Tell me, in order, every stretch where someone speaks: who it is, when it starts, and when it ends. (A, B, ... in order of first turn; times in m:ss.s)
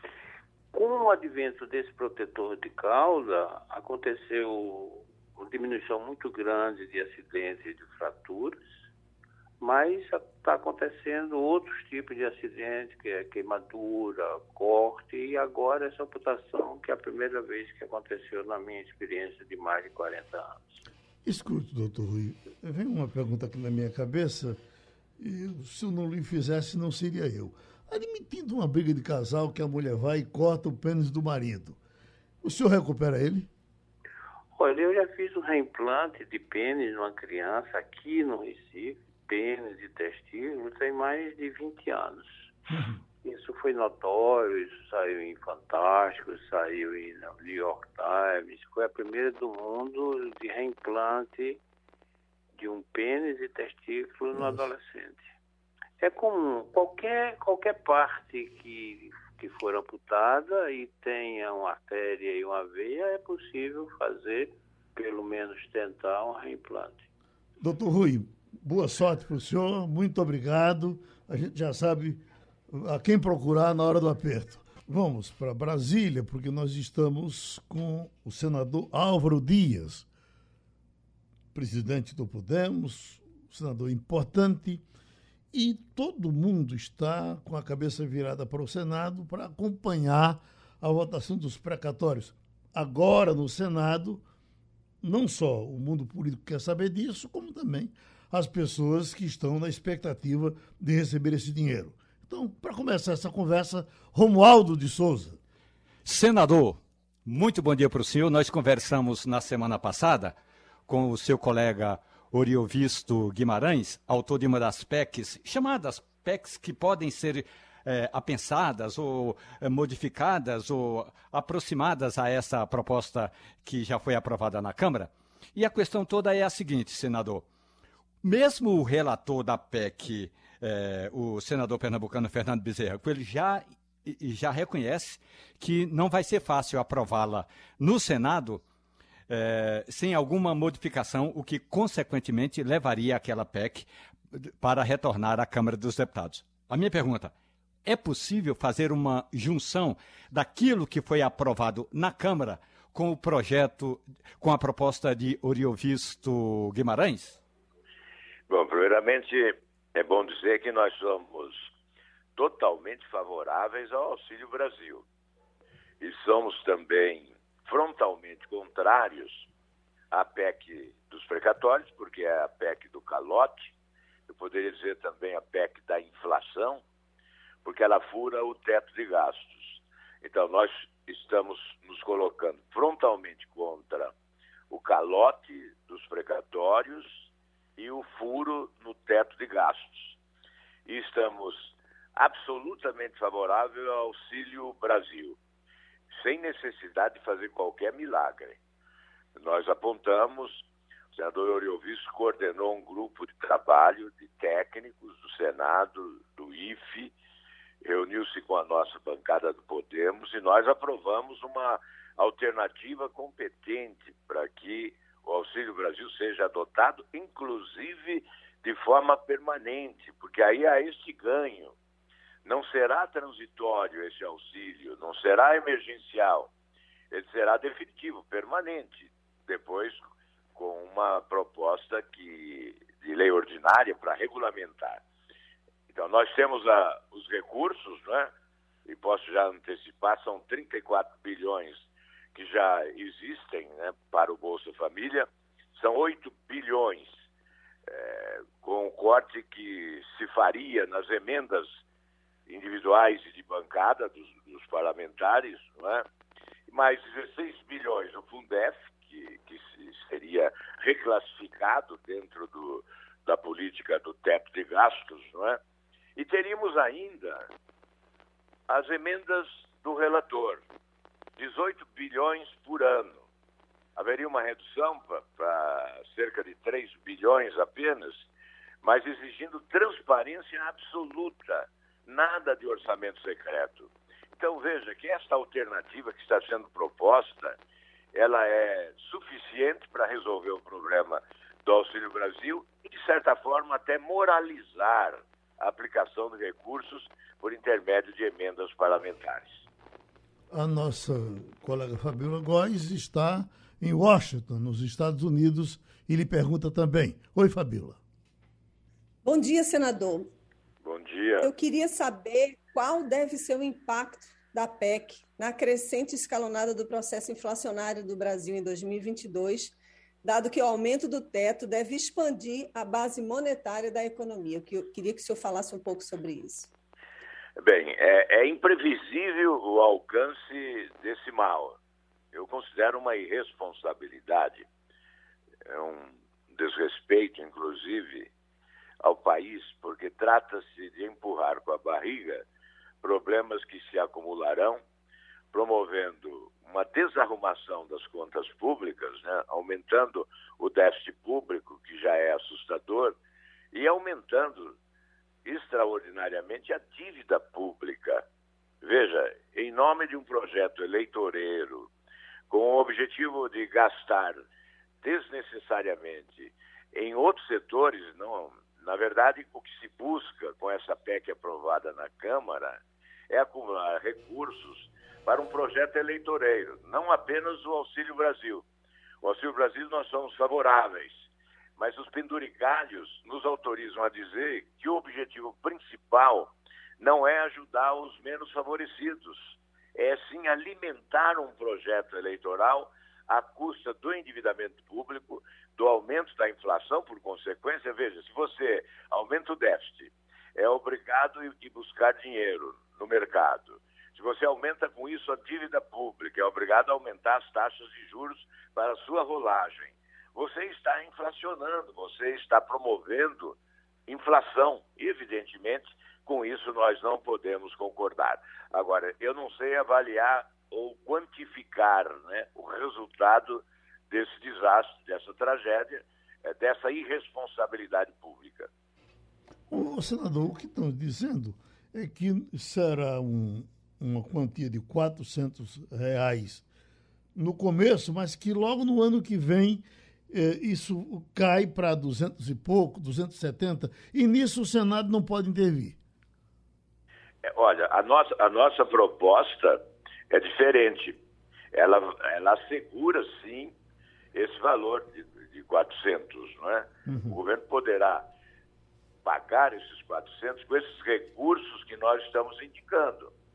0:00.7-0:08.6 A
0:09.6-0:20.8 A
0:21.2-0:24.6 B
0:25.2-0:31.8 B
0:32.4-0:33.5 B
0:34.6-0:42.3 A
0:43.2-0:51.6 A
0:52.6-0:55.3 A
0:54.4-0:54.6 B
0:56.0-1:07.1 A
1:07.6-1:20.1 B
1:21.5-1:24.8 B
1:25.5-1:34.2 B
1:35.0-1:45.4 B
1:46.0-1:50.4 C
1:50.9-2:07.4 C
2:08.2-2:18.6 C
2:19.3-2:27.3 C
2:27.8-2:37.4 C
2:38.5-2:41.6 D
2:42.4-2:45.0 D
2:46.0-2:49.5 D
2:50.1-2:53.7 D
2:54.3-2:56.8 D
2:57.6-3:04.1 D
3:04.7-3:10.2 D
3:10.9-3:15.4 D
3:16.1-3:18.6 D
3:19.4-3:27.2 D
3:27.8-3:41.8 D
3:42.4-3:46.5 D
3:47.1-3:50.0 D
3:50.6-3:55.0 D
3:55.9-3:58.3 D
3:58.9-4:07.1 D
4:07.9-4:11.8 D
4:12.5-4:16.0 D
4:16.7-4:25.6 D
4:26.2-4:27.5 D
4:28.7-4:30.6 D
4:31.4-4:33.2 D
4:34.0-4:38.3 D
4:38.8-4:47.6 D
4:48.1-4:59.6 D
5:00.5-5:08.0 B
5:09.2-5:10.3 E
5:10.8-5:11.5 D
5:11.4-5:26.7 E
5:27.6-5:31.8 D
5:32.3-5:34.7 D
5:35.6-5:38.3 D
5:39.0-5:42.4 D
5:43.0-5:44.8 D
5:45.5-5:53.2 D
5:53.7-5:54.8 D
5:55.4-5:58.2 D
5:58.8-6:01.9 D
6:02.5-6:04.4 D
6:05.0-6:18.6 D
6:19.2-6:21.2 D
6:21.8-7:08.7 D
7:09.7-7:16.6 B
7:17.4-7:26.0 B
7:27.4-7:31.2 D
7:31.7-7:33.7 D
7:34.3-7:38.3 D
7:37.1-7:37.4 B
7:39.2-7:43.3 D